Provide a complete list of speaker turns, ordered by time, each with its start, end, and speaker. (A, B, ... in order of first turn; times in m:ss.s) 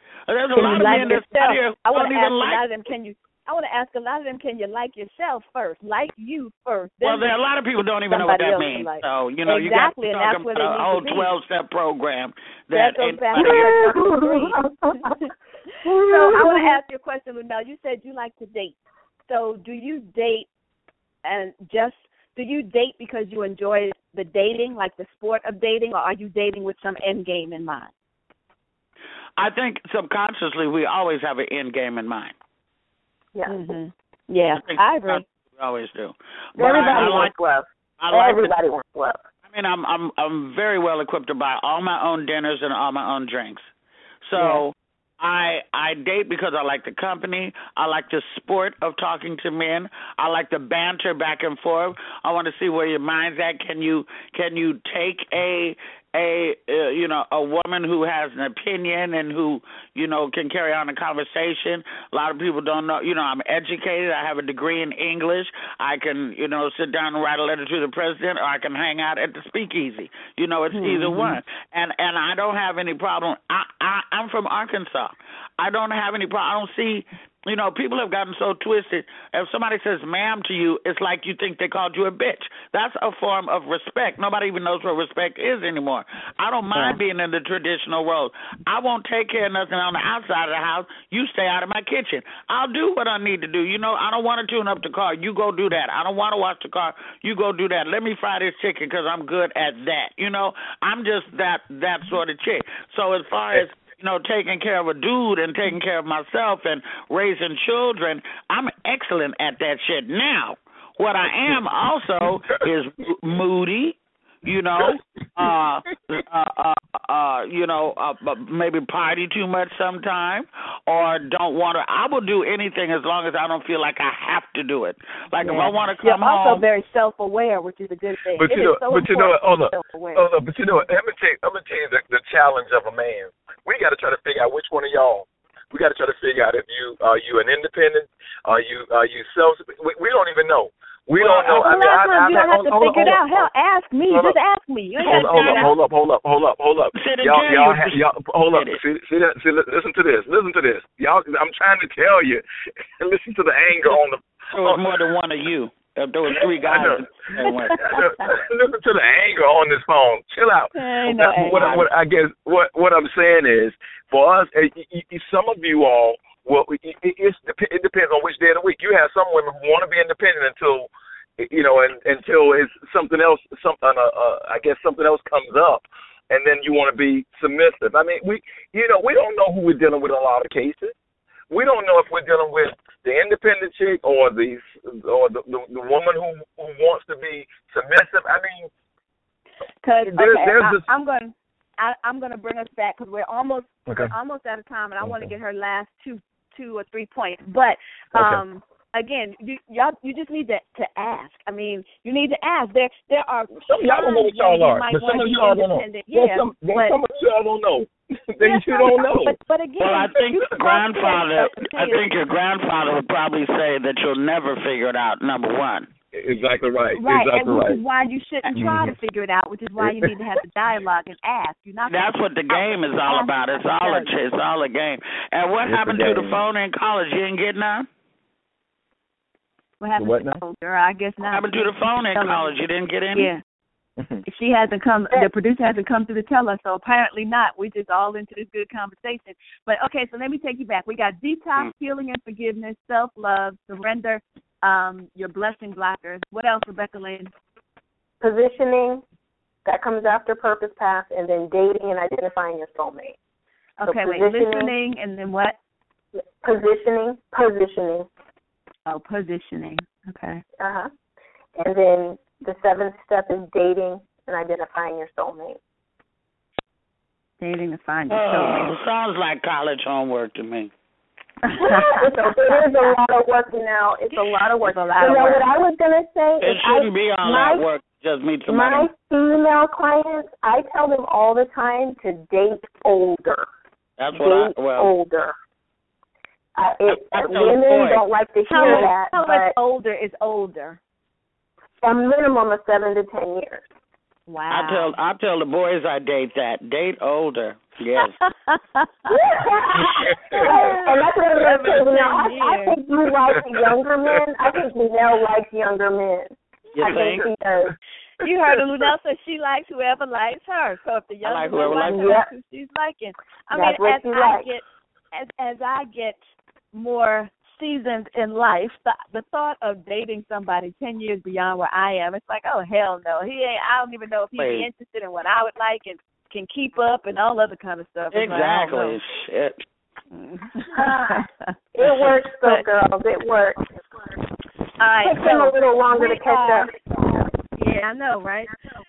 0:00.3-0:02.6 A
0:00.6-0:01.2 B
0:00.6-0:07.3 C
0:07.0-0:13.7 A
0:08.1-0:11.3 C
0:12.7-0:15.3 C
0:13.4-0:15.1 B
0:15.8-0:16.8 B
0:15.9-0:18.7 C
0:19.3-0:20.5 C
0:21.2-0:27.9 C
0:29.4-0:32.3 A
0:33.3-0:33.7 B
0:33.5-0:35.2 C
0:34.6-0:37.3 A
0:36.6-0:39.2 B
0:38.0-0:38.5 A
0:39.5-0:43.7 A
0:44.2-2:06.6 A
1:10.7-1:11.4 C
1:52.2-1:52.7 D
2:05.4-2:10.3 C
2:08.4-2:23.5 D
2:21.2-2:25.7 C
2:24.1-2:24.4 D
2:25.0-2:25.7 A
2:25.0-2:32.4 D
2:27.0-2:28.8 A
2:33.0-2:35.1 D
2:34.5-2:37.9 A
2:36.3-3:01.0 D
2:40.7-2:41.6 C
2:41.4-2:41.9 A
3:01.5-3:08.7 D
3:09.8-3:27.0 C
3:10.0-3:10.9 D
3:13.9-3:14.1 D
3:15.0-3:15.3 D
3:18.1-3:18.4 D
3:23.7-3:29.4 D
3:28.4-3:32.1 C
3:29.8-3:35.9 A
3:36.1-3:37.8 D
3:37.0-3:44.1 C
3:38.6-3:39.0 D
3:39.8-3:40.1 D
3:41.9-3:47.9 A
3:45.6-3:46.4 D
3:49.8-3:52.6 C
3:50.0-3:50.4 D
3:51.2-3:53.3 A
3:53.1-3:53.4 C
3:54.2-4:07.3 C
4:08.2-4:09.0 B
4:09.6-4:13.2 B
4:13.8-4:15.6 C
4:13.8-4:14.7 B
4:16.1-4:18.1 B
4:18.9-4:20.4 C
4:20.6-4:20.9 B
4:21.6-4:25.6 B
4:27.4-4:28.7 C
4:28.1-4:30.7 A
4:31.4-4:32.9 C
4:31.5-4:37.6 B
4:34.1-4:35.4 C
4:36.4-4:38.9 A
4:38.5-4:43.5 B
4:44.0-4:44.9 A
4:44.1-4:45.3 B
4:46.6-4:49.6 B
4:46.9-4:48.0 A
4:48.5-4:50.8 C
4:48.6-4:48.9 A
4:51.8-4:53.6 B
4:54.3-4:55.0 C
4:54.5-4:58.2 A
4:58.0-4:59.1 C
4:59.1-5:07.7 B
4:59.8-5:02.8 C
5:00.1-5:00.4 D
5:03.4-5:03.7 D
5:06.8-5:07.3 A
5:08.2-5:16.2 C
5:11.2-5:12.2 A
5:11.8-5:12.3 B
5:13.5-5:14.5 B
5:16.7-5:29.0 C
5:24.4-5:24.7 A
5:28.1-5:29.6 A
5:30.1-5:32.7 C
5:30.8-5:31.2 B
5:31.7-5:33.6 B
5:34.8-5:36.7 C
5:35.0-5:37.3 B
5:37.6-5:38.5 C